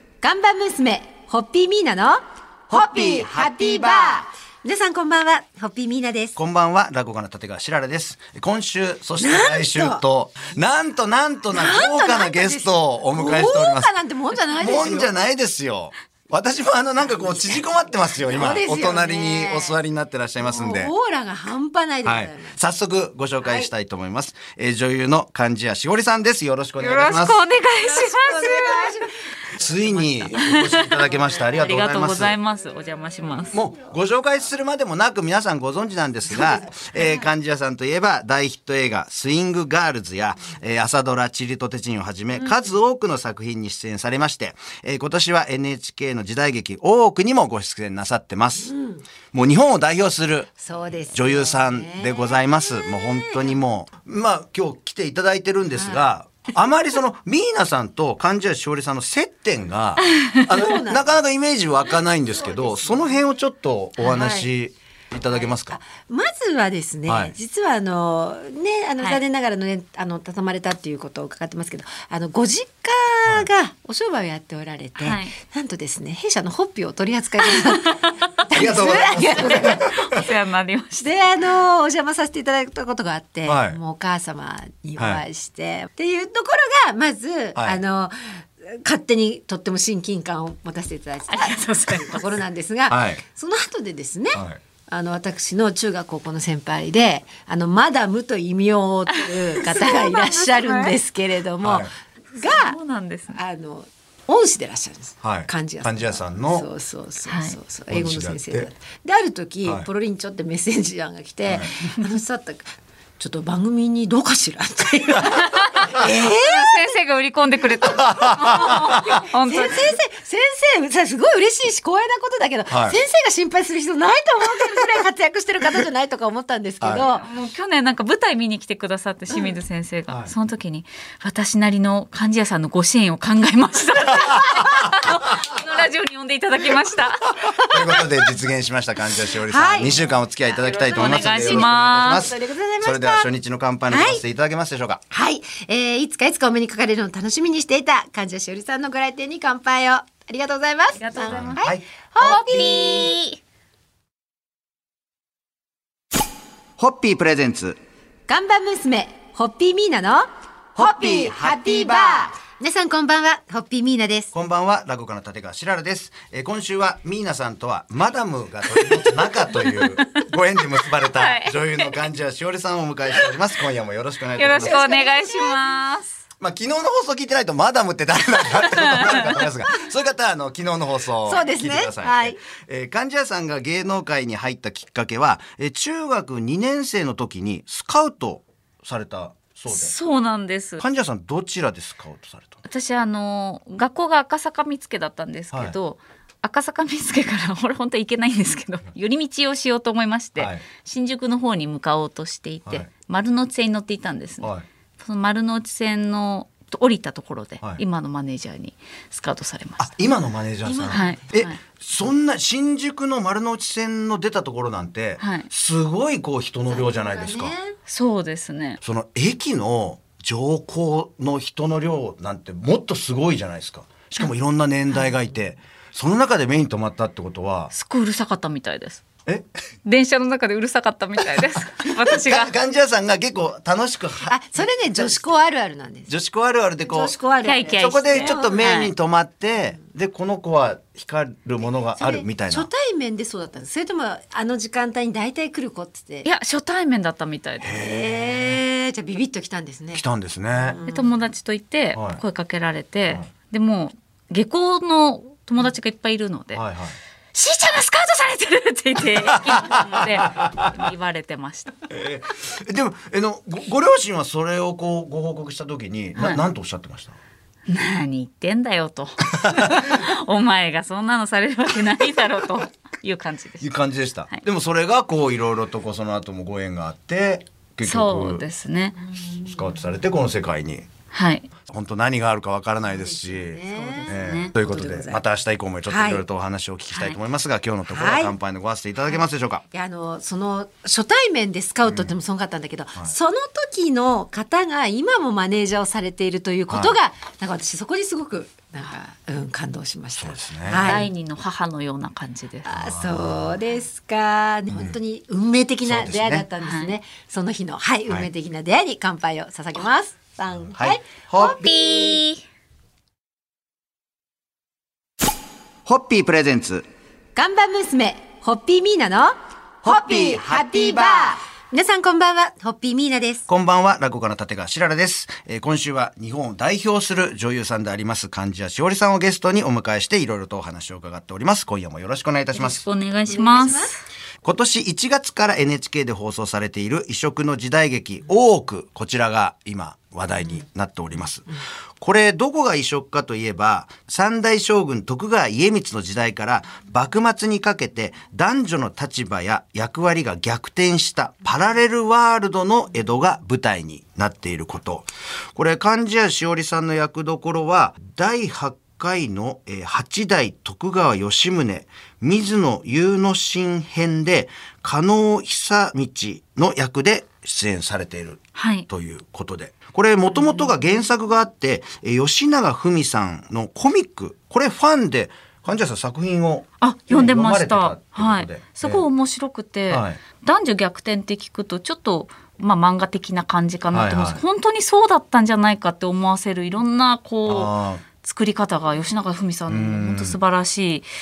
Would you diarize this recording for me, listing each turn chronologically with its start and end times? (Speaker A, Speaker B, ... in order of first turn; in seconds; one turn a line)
Speaker A: 0.2-6.4
Speaker B: 6.4-13.9
Speaker A: 9.2-10.0
Speaker A: 11.5-15.2
Speaker B: 14.6-20.9
Speaker A: 17.0-19.8
Speaker A: 20.4-22.6
Speaker B: 22.1-27.4
Speaker A: 23.4-23.7
Speaker C: 26.8-28.9
Speaker A: 27.8-30.6
Speaker B: 29.6-32.4
Speaker C: 30.4-31.0
Speaker C: 31.6-33.6
Speaker B: 33.5-48.7
Speaker A: 36.3-36.9
Speaker A: 48.7-49.0
Speaker B: 49.3-50.5
Speaker A: 50.6-53.6
Speaker B: 51.1-65.8
Speaker A: 55.8-56.0
Speaker A: 60.5-61.1
Speaker A: 62.2-63.2
Speaker A: 64.0-64.5
Speaker A: 65.3-79.9
Speaker B: 67.1-67.3
Speaker C: 75.0-75.3
Speaker C: 77.6-78.2
Speaker B: 78.5-80.1
Speaker C: 79.5-81.2
Speaker A: 81.0-102.8
Speaker B: 83.5-83.8
Speaker B: 85.0-85.2
Speaker C: 91.3-92.2
Speaker B: 92.9-93.2
Speaker B: 94.3-94.6
Speaker C: 99.3-100.9
Speaker B: 101.6-101.9
Speaker C: 102.4-103.4
Speaker A: 103.3-116.9
Speaker B: 105.2-106.7
Speaker C: 107.3-107.6
Speaker B: 107.9-108.7
Speaker B: 111.5-111.8
Speaker C: 115.5-120.0
Speaker B: 117.9-119.0
Speaker A: 118.2-127.2
Speaker B: 122.7-123.0
Speaker B: 126.8-127.2
Speaker C: 127.2-137.3
Speaker B: 137.7-145.0
Speaker A: 139.5-140.0
Speaker A: 140.7-143.3
Speaker C: 140.9-142.3
Speaker A: 143.9-144.2
Speaker A: 145.1-153.2
Speaker C: 151.0-151.6
Speaker B: 151.3-152.4
Speaker C: 152.2-153.4
Speaker B: 156.8-157.8
Speaker A: 158.3-164.3
Speaker B: 164.3-174.8
Speaker C: 169.8-170.2
Speaker C: 171.0-171.9
Speaker C: 174.4-176.2
Speaker A: 174.5-175.6
Speaker B: 176.4-189.9
Speaker C: 178.7-179.3
Speaker A: 181.2-182.4
Speaker C: 189.7-190.8
Speaker B: 190.8-192.6
Speaker C: 192.7-209.9
Speaker B: 195.5-195.8
Speaker B: 200.4-200.7
Speaker B: 202.7-202.9
Speaker B: 209.8-217.5
Speaker A: 210.6-211.2
Speaker C: 210.9-211.6
Speaker C: 215.2-215.5
Speaker A: 216.7-217.8
Speaker C: 217.9-218.8
Speaker B: 218.8-227.7
Speaker C: 227.7-229.0
Speaker C: 229.8-232.5
Speaker B: 231.8-235.3
Speaker A: 234.3-236.1
Speaker B: 236.1-237.1
Speaker A: 236.8-238.7
Speaker C: 237.4-238.9
Speaker B: 237.8-242.7
Speaker A: 241.8-246.3
Speaker C: 246.2-247.8
Speaker B: 247.6-248.6
Speaker A: 247.7-251.2
Speaker B: 249.9-250.8
Speaker C: 250.8-256.6
Speaker B: 251.9-252.2
Speaker B: 256.6-257.0
Speaker C: 257.3-261.8
Speaker B: 259.3-260.7
Speaker B: 261.9-267.2
Speaker C: 266.2-266.4
Speaker C: 267.7-273.7
Speaker B: 273.6-278.5
Speaker C: 277.8-279.0
Speaker B: 279.4-280.9
Speaker C: 281.1-281.5
Speaker B: 281.7-289.6
Speaker A: 282.9-285.2
Speaker C: 283.7-284.5
Speaker A: 285.9-286.2
Speaker C: 286.9-287.2
Speaker A: 287.9-288.4
Speaker A: 289.7-301.1
Speaker B: 296.7-297.0
Speaker B: 300.2-301.0
Speaker C: 300.7-302.7
Speaker A: 302.6-312.2
Speaker B: 302.7-303.6
Speaker B: 305.8-306.5
Speaker C: 306.6-306.9
Speaker B: 310.7-311.6
Speaker C: 311.4-312.4
Speaker B: 315.9-316.9
Speaker A: 317.4-323.5
Speaker B: 319.9-320.4
Speaker B: 323.5-332.8
Speaker C: 332.5-334.0
Speaker A: 333.3-333.9
Speaker B: 334.4-341.5
Speaker B: 342.0-379.1
Speaker C: 368.6-368.9
Speaker C: 376.8-391.1
Speaker B: 379.9-380.2
Speaker B: 383.9-384.4
Speaker B: 387.5-388.0
Speaker B: 389.7-390.4